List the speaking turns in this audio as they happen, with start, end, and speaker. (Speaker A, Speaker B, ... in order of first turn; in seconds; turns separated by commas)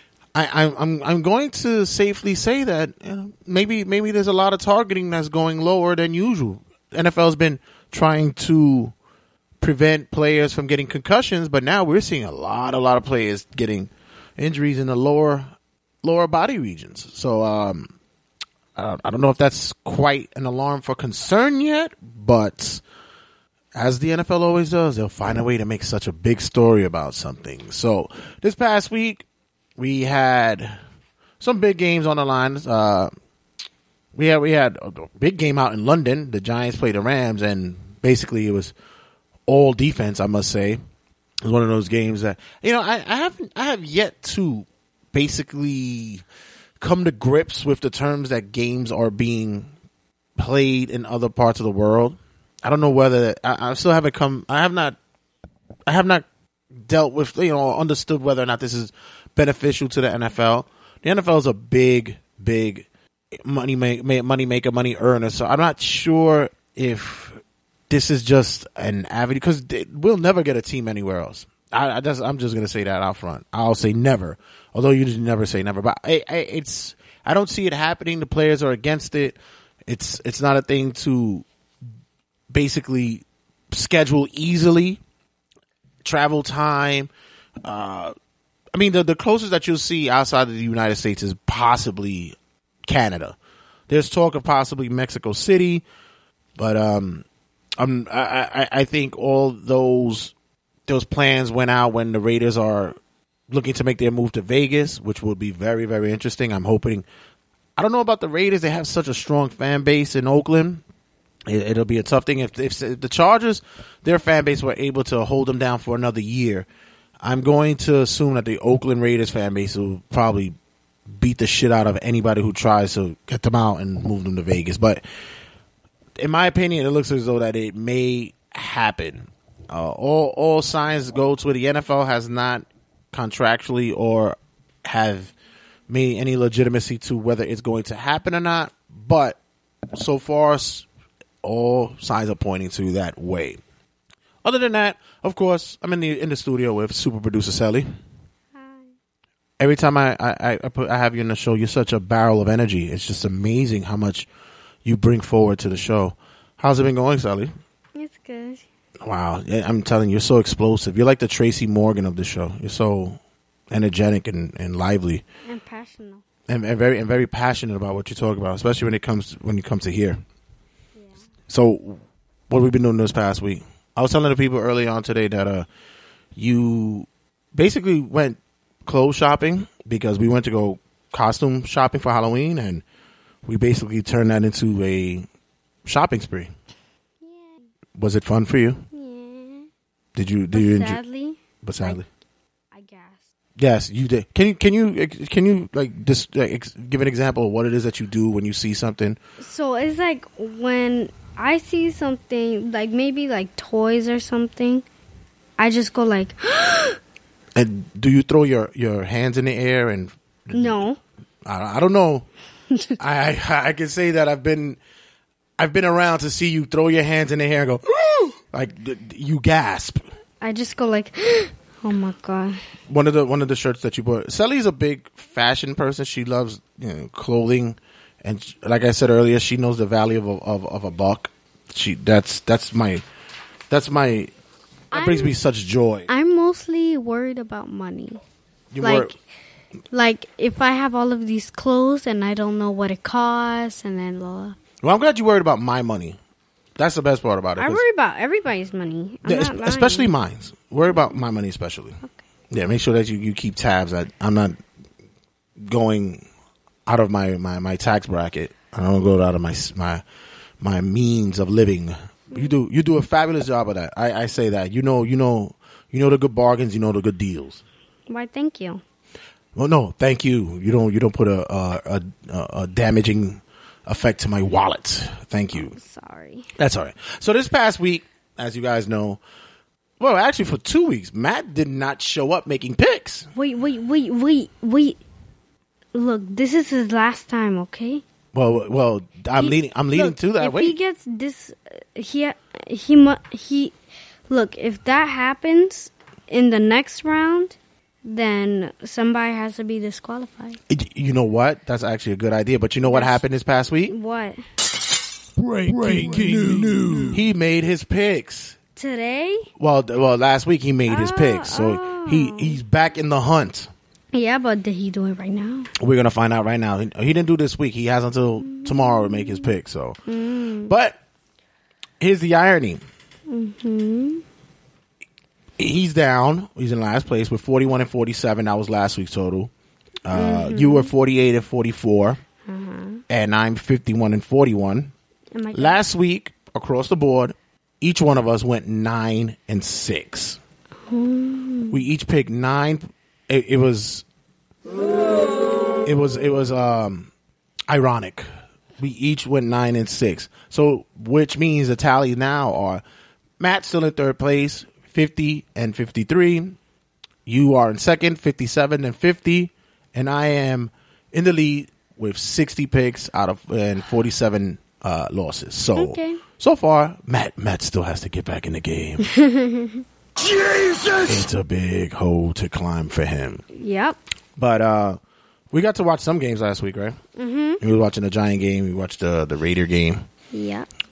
Speaker A: 0.3-8.9, Speaker A: 9.6-15.5, Speaker A: 16.0-17.9, Speaker A: 18.8-22.8, Speaker A: 23.8-29.2, Speaker A: 29.8-30.8, Speaker A: 31.4-33.1, Speaker A: 34.1-38.7, Speaker A: 39.5-40.8, Speaker A: 41.4-46.2, Speaker A: 46.8-49.7, Speaker A: 50.4-55.0, Speaker A: 55.9-56.3, Speaker A: 56.9-62.9, Speaker A: 63.5-81.5, Speaker A: 82.5-85.0, Speaker A: 86.0-87.1, Speaker A: 87.7-88.1, Speaker A: 88.7-92.4, Speaker A: 92.9-93.4, Speaker A: 93.9-95.8, Speaker A: 96.6-97.2, Speaker A: 97.8-100.3, Speaker A: 100.9-103.0, Speaker A: 103.5-107.0, Speaker A: 107.8-110.8, Speaker A: 111.5-116.7, Speaker A: 117.2-120.5, Speaker A: 121.1-125.0, Speaker A: 126.2-135.3, Speaker A: 135.9-139.4, Speaker A: 139.9-140.9, Speaker A: 141.4-143.6, Speaker A: 144.4-147.9, Speaker B: 148.6-148.9, Speaker A: 149.6-154.3, Speaker A: 154.8-157.5, Speaker B: 157.9-158.7, Speaker A: 159.0-163.2, Speaker A: 163.7-165.2, Speaker B: 165.5-166.2, Speaker A: 166.5-170.2, Speaker B: 170.9-171.3, Speaker A: 171.5-175.7, Speaker A: 176.4-182.8, Speaker A: 183.4-185.3, Speaker A: 185.9-186.5, Speaker B: 187.2-187.6, Speaker A: 188.0-188.8, Speaker B: 188.9-189.7, Speaker A: 190.2-191.0, Speaker B: 190.5-192.0, Speaker A: 191.6-192.1, Speaker B: 192.7-193.2, Speaker A: 193.6-199.2, Speaker B: 199.4-204.8, Speaker B: 205.6-207.0, Speaker A: 207.6-210.9, Speaker B: 210.5-211.0, Speaker A: 211.4-212.3, Speaker A: 213.0-214.8, Speaker A: 215.6-220.0, Speaker B: 220.4-222.6, Speaker A: 222.9-233.0, Speaker A: 233.7-234.3, Speaker B: 234.9-235.4, Speaker A: 234.9-236.1, Speaker B: 236.1-238.2, Speaker A: 238.7-239.1, Speaker B: 238.8-239.2, Speaker B: 239.9-244.6, Speaker A: 244.8-246.2, Speaker A: 246.8-247.8, Speaker B: 247.6-250.2, Speaker A: 249.2-252.0, Speaker A: 252.5-254.6, Speaker A: 255.6-256.2, Speaker A: 256.9-260.0, Speaker A: 260.6-267.6, Speaker B: 262.3-262.6, Speaker B: 268.1-268.8, Speaker A: 269.6-275.8, Speaker B: 275.5-276.5, Speaker A: 276.6-279.2, Speaker A: 280.0-283.3, Speaker B: 283.4-285.0, Speaker B: 285.9-288.0, Speaker A: 288.3-290.7, Speaker B: 289.4-293.7, Speaker B: 294.3-300.6, Speaker A: 300.7-303.9, Speaker B: 302.8-303.2, Speaker B: 303.9-304.4, Speaker A: 305.4-308.6, Speaker B: 308.8-309.5, Speaker A: 309.6-313.7, Speaker B: 310.9-312.6, Speaker B: 314.1-315.7, Speaker A: 315.8-320.0, Speaker B: 318.4-319.5, Speaker B: 320.1-320.7, Speaker A: 320.7-321.0, Speaker A: 322.0-322.8, Speaker B: 323.3-324.2, Speaker A: 325.6-329.5, Speaker A: 330.1-332.2, Speaker B: 330.1-330.9, Speaker B: 332.5-333.0, Speaker A: 333.1-334.9, Speaker B: 335.3-335.8, Speaker A: 335.5-340.4, Speaker B: 340.9-341.8, Speaker A: 341.7-344.1, Speaker A: 345.9-347.1, Speaker A: 347.7-348.3, Speaker A: 348.8-352.8, Speaker A: 353.4-356.6, Speaker A: 357.3-369.1, Speaker B: 365.8-366.2, Speaker B: 369.0-369.8, Speaker A: 371.0-373.4, Speaker B: 373.6-374.0, Speaker A: 374.4-375.0, Speaker A: 375.5-377.0, Speaker B: 377.2-377.6, Speaker A: 377.6-380.0, Speaker B: 380.3-380.7